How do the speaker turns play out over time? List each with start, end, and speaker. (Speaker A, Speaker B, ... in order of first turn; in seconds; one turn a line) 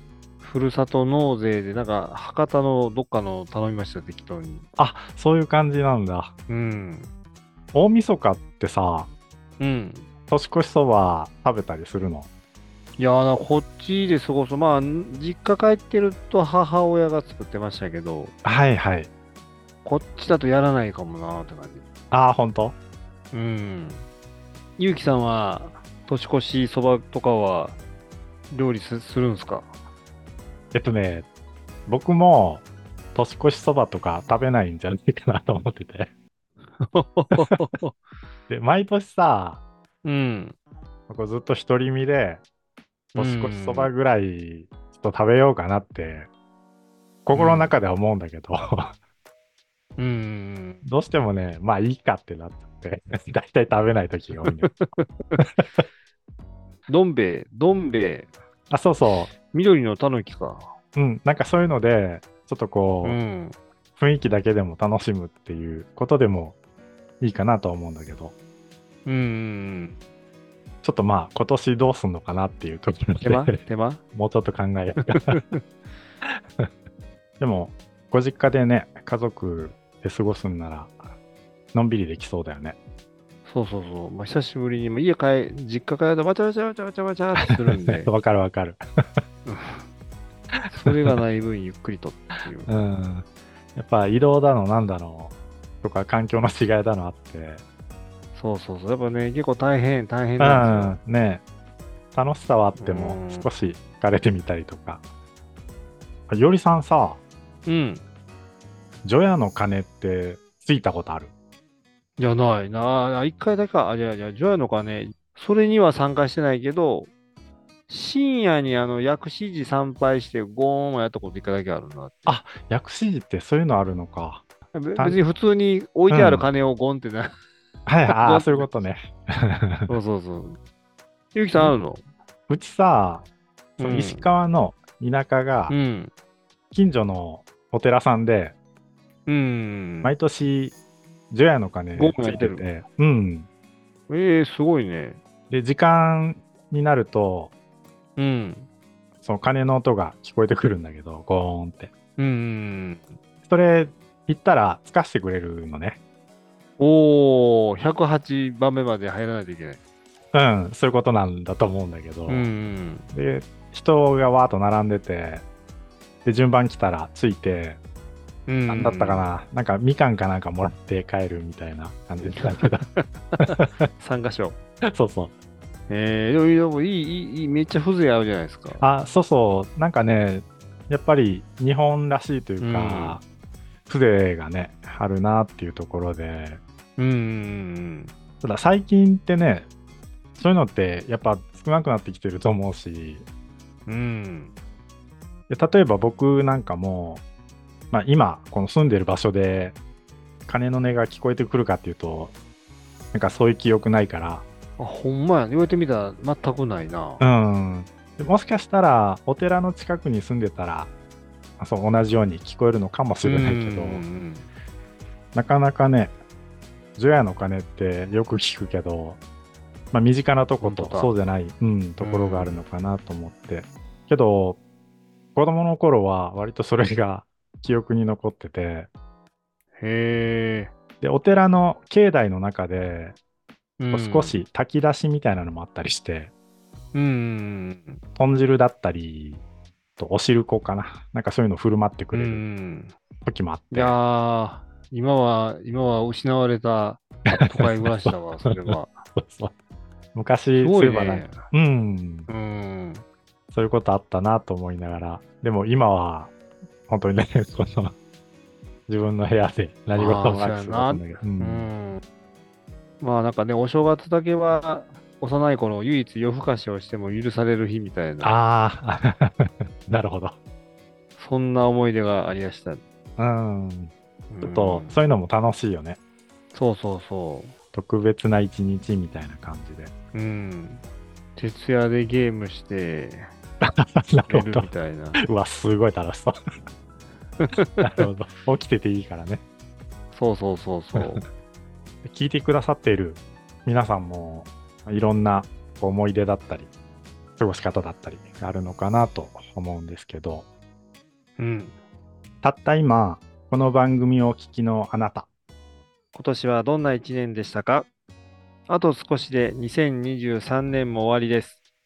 Speaker A: 0.4-4.7
Speaker B: 4.8-6.3
Speaker A: 6.5-7.1
Speaker B: 7.7-9.1
Speaker A: 9.6-10.1
Speaker B: 10.3-12.3
Speaker A: 13.0-18.3
Speaker B: 18.4-19.1
Speaker A: 19.9-21.9
Speaker B: 22.1-22.8
Speaker A: 23.3-24.1
Speaker A: 24.8-27.8
Speaker A: 28.5-29.7
Speaker B: 30.7-31.3
Speaker B: 31.9-36.1
Speaker A: 36.8-38.0
Speaker B: 38.5-39.6
Speaker A: 40.0-40.6
Speaker B: 41.1-42.4
Speaker A: 43.1-43.9
Speaker B: 43.2-46.3
Speaker B: 47.3-48.9
Speaker A: 47.3-47.7
Speaker A: 50.0-50.8
Speaker B: 50.8-54.7
Speaker A: 54.4-55.4
Speaker B: 55.4-55.8
Speaker A: 56.9-58.3
Speaker B: 58.7-59.3
Speaker A: 59.4-60.7
Speaker B: 61.0-63.2
Speaker A: 63.0-63.6
Speaker B: 64.0-66.6
Speaker B: 67.2-68.3
Speaker A: 69.0-70.0
Speaker B: 70.8-73.5
Speaker A: 73.2-74.0
Speaker B: 74.2-75.4
Speaker A: 75.0-75.6
Speaker B: 76.2-76.7
Speaker B: 77.4-81.0
Speaker B: 81.7-82.8
Speaker A: 83.5-88.1
Speaker B: 87.4-88.8
Speaker A: 89.5-89.9
Speaker B: 90.7-91.1
Speaker A: 90.7-92.7
Speaker B: 92.7-97.6
Speaker A: 98.3-101.0
Speaker B: 100.4-101.4
Speaker B: 102.1-105.0
Speaker A: 102.8-103.5
Speaker B: 106.3-107.2
Speaker A: 107.7-108.0
Speaker B: 109.0-111.3
Speaker A: 112.2-117.1
Speaker A: 117.9-122.4
Speaker B: 122.3-124.5
Speaker A: 124.7-127.4
Speaker B: 126.1-126.5
Speaker B: 127.9-129.9
Speaker A: 128.1-128.7
Speaker A: 129.9-130.6
Speaker A: 131.3-132.0
Speaker B: 132.5-133.3
Speaker B: 133.8-135.8
Speaker A: 133.8-134.3
Speaker A: 135.7-136.1
Speaker B: 136.7-138.6
Speaker A: 139.3-140.2
Speaker B: 140.0-140.8
Speaker B: 141.3-143.5
Speaker A: 142.0-142.7
Speaker A: 144.1-145.2
Speaker B: 145.5-147.5
Speaker A: 148.2-148.7
Speaker B: 149.2-151.9
Speaker A: 152.2-153.1
Speaker B: 153.4-156.0
Speaker A: 156.8-159.8
Speaker B: 160.3-162.5
Speaker A: 162.3-163.1
Speaker B: 163.1-165.4
Speaker B: 166.2-167.8
Speaker A: 168.5-169.3
Speaker B: 168.7-172.9
Speaker A: 172.2-174.6
Speaker B: 173.4-173.8
Speaker B: 174.9-175.3
Speaker A: 175.9-178.8
Speaker B: 178.8-183.2
Speaker A: 182.6-183.2
Speaker B: 183.9-186.6
Speaker A: 187.0-188.1
Speaker B: 188.4-189.7
Speaker B: 190.4-193.2
Speaker A: 193.9-194.5
Speaker B: 195.5-197.2
Speaker B: 197.9-199.8
Speaker B: 200.5-202.3
Speaker B: 203.1-204.4
Speaker A: 204.8-207.2
Speaker B: 207.2-210.9
Speaker B: 211.6-214.1
Speaker A: 213.2-214.5
Speaker B: 215.3-216.2
Speaker B: 217.0-219.2
Speaker B: 219.9-224.6
Speaker A: 220.6-221.1
Speaker A: 222.0-222.6
Speaker B: 225.3-228.9
Speaker A: 229.8-230.7
Speaker B: 231.0-233.2
Speaker A: 233.8-234.4
Speaker B: 233.9-236.3
Speaker A: 236.9-238.0
Speaker B: 238.2-239.4
Speaker B: 240.0-242.4
Speaker A: 242.1-242.9
Speaker B: 243.2-244.0
Speaker A: 243.7-249.0
Speaker B: 247.3-249.5
Speaker B: 250.2-252.3
Speaker A: 250.6-251.4
Speaker A: 252.3-253.0
Speaker B: 253.5-256.3
Speaker B: 256.9-257.9
Speaker B: 258.9-261.7
Speaker A: 259.9-262.0
Speaker A: 263.0-268.4
Speaker B: 268.2-270.4
Speaker A: 271.2-272.8
Speaker B: 273.2-276.0
Speaker A: 274.3-275.0
Speaker A: 276.5-277.6
Speaker B: 277.7-279.9
Speaker A: 280.1-280.8
Speaker A: 281.4-283.3
Speaker B: 283.6-284.7
Speaker A: 284.3-285.2
Speaker B: 285.2-286.4
Speaker A: 287.4-288.1
Speaker B: 287.8-289.4
Speaker A: 290.1-291.2
Speaker B: 291.0-291.2
Speaker B: 292.0-296.7
Speaker B: 297.4-300.5
Speaker A: 301.4-301.8
Speaker B: 302.4-305.3
Speaker A: 306.1-307.9
Speaker A: 308.7-311.6